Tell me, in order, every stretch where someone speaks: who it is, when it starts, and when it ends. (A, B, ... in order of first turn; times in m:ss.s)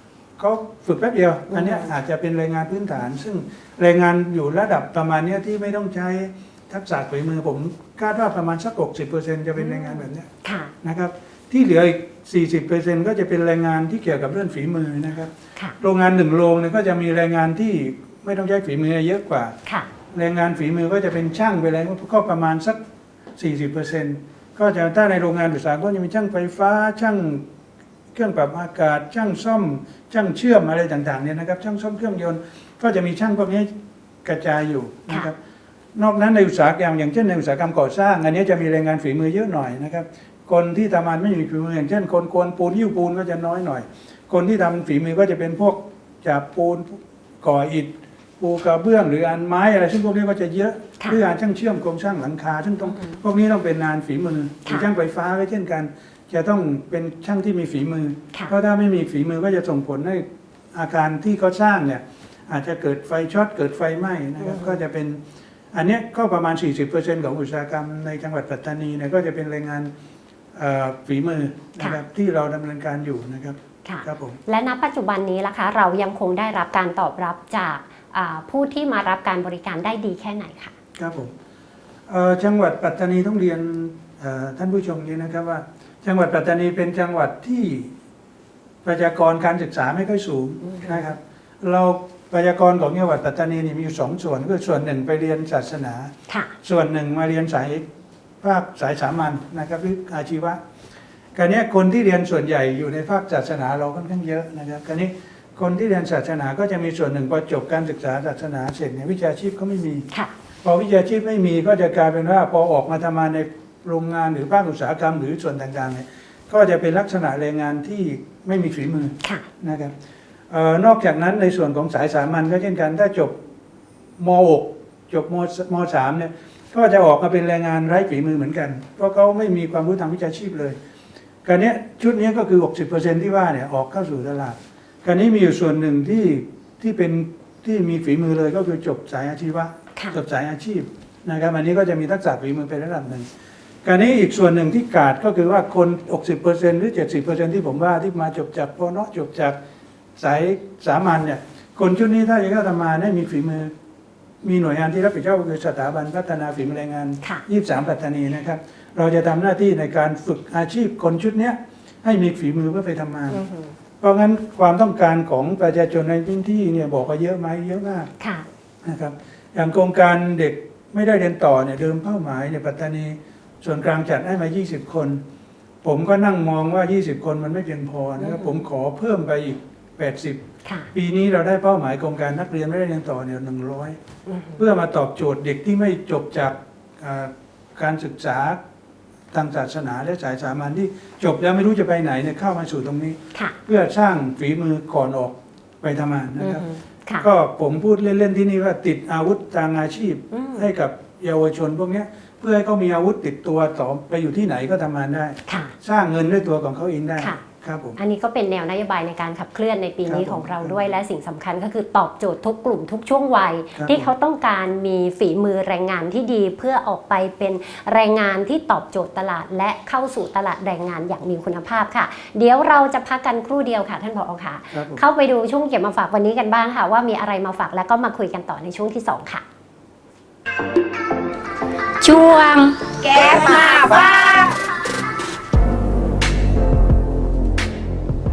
0:00.4-0:10.3 A
0:01.5-0:01.9 B
0:09.6-0:10.7 B
0:10.8-0:19.6 A
0:20.1-0:22.8 A
0:23.4-0:27.4 A
0:28.1-0:35.4 A
0:35.9-1:05.2 A
1:04.4-1:04.7 B
1:05.7-1:09.9 A
1:10.5-1:14.4 A
1:13.8-1:20.8 B
1:21.0-1:21.4 A
1:22.1-1:27.9 A
1:28.8-1:37.9 A
1:30.6-1:30.9 B
1:38.4-1:40.6 A
1:41.4-1:50.1 A
1:50.6-1:59.9 A
2:00.5-2:03.4 A
2:04.2-2:10.8 A
2:11.4-2:23.3 A
2:23.8-2:29.6 A
2:30.2-2:33.7 A
2:34.4-2:43.4 A
2:43.3-2:43.8 B
2:44.0-2:48.1 A
2:48.2-2:48.5 B
2:48.8-2:55.2 A
2:55.8-3:04.0 A
2:58.2-2:58.6 B
3:00.6-3:00.9 B
3:04.3-3:04.6 B
3:04.6-3:08.6 A
3:09.3-3:16.6 A
3:16.4-3:17.3 B
3:17.2-3:28.0 A
3:20.3-3:20.7 B
3:25.5-3:25.8 B
3:28.0-3:49.4 B
3:30.0-3:30.8 A
3:33.8-3:34.1 A
3:44.7-3:45.0 A
3:52.0-3:54.6 C